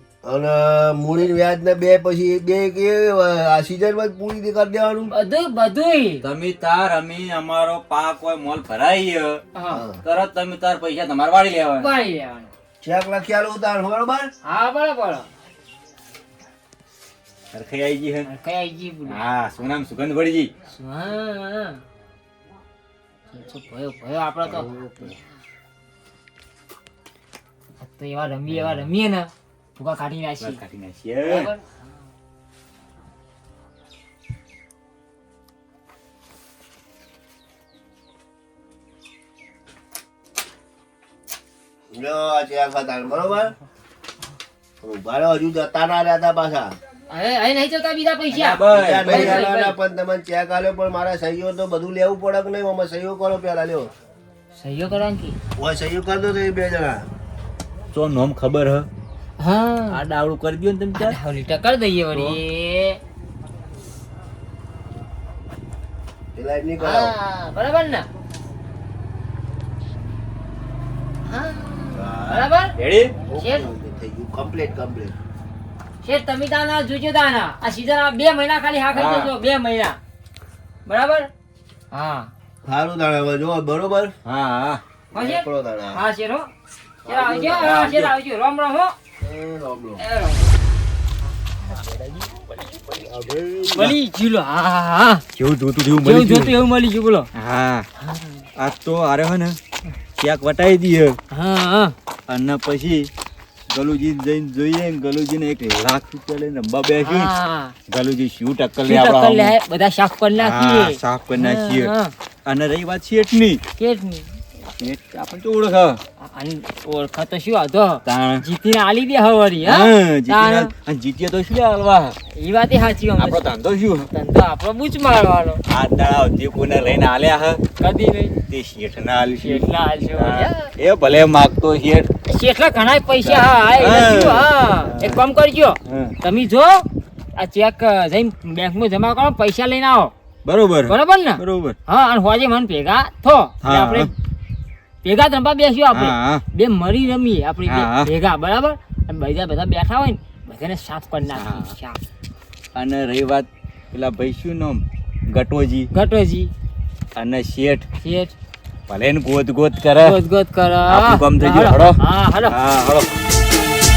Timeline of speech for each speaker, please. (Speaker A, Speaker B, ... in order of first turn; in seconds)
Speaker A: 0.2-5.1, 9.7-10.0, 12.8-14.3, 41.9-43.5, 44.8-46.8, 48.7-53.9, 55.6-57.1, 66.3-67.1, 71.9-72.5, 73.3-75.2, 82.7-84.2, 85.1-86.0, 87.0-87.7, 89.2-90.0, 93.0-93.7
Speaker B: 5.1-6.2, 9.6-9.8, 11.8-12.5, 14.4-15.3, 18.3-19.2, 20.7-21.8, 23.3-25.2, 27.8-30.6, 31.2-31.6, 47.1-49.8, 54.5-55.4, 59.4-60.0, 61.0-63.0, 66.8-68.1, 71.2-72.8, 73.3-73.7, 76.0-80.0, 80.9-81.3, 81.9-82.3, 85.1-86.5, 87.1-89.0, 90.0-90.5, 93.7-95.2, 95.9-97.3, 98.0-98.5, 101.3-102.0, 107.0-107.8, 108.8-112.1, 113.8-114.4, 116.2-120.7, 122.3-123.5, 124.1-125.6, 127.8-128.3, 129.4-130.7, 132.3-140.1, 140.9-144.1, 145.0-152.0, 155.9-156.5, 158.0-158.3, 160.0-162.6
Speaker C: 6.2-9.4, 10.0-11.9, 17.5-18.3, 19.1-20.5, 24.4-25.1, 28.5-28.9, 30.4-31.5, 48.3-49.5, 57.9-58.9, 59.9-61.2, 62.1-62.4, 72.8-73.2, 78.9-79.3, 84.2-84.8, 87.6-88.1, 92.0-92.4, 95.3-96.6, 97.3-97.9, 98.6-99.6, 100.2-101.2, 102.3-103.1, 103.7-107.3, 107.9-109.6, 110.4-111.9, 112.5-113.6, 114.8-116.0, 118.0-118.5, 119.6-122.2, 123.2-124.1, 125.7-127.6, 128.5-132.1, 133.2-135.2, 135.9-136.2, 140.4-141.8, 143.6-144.1, 145.9-146.4, 147.7-148.1, 151.3-151.7, 152.8-155.9, 157.2-157.9, 158.9-160.2, 160.9-162.0, 162.5-163.1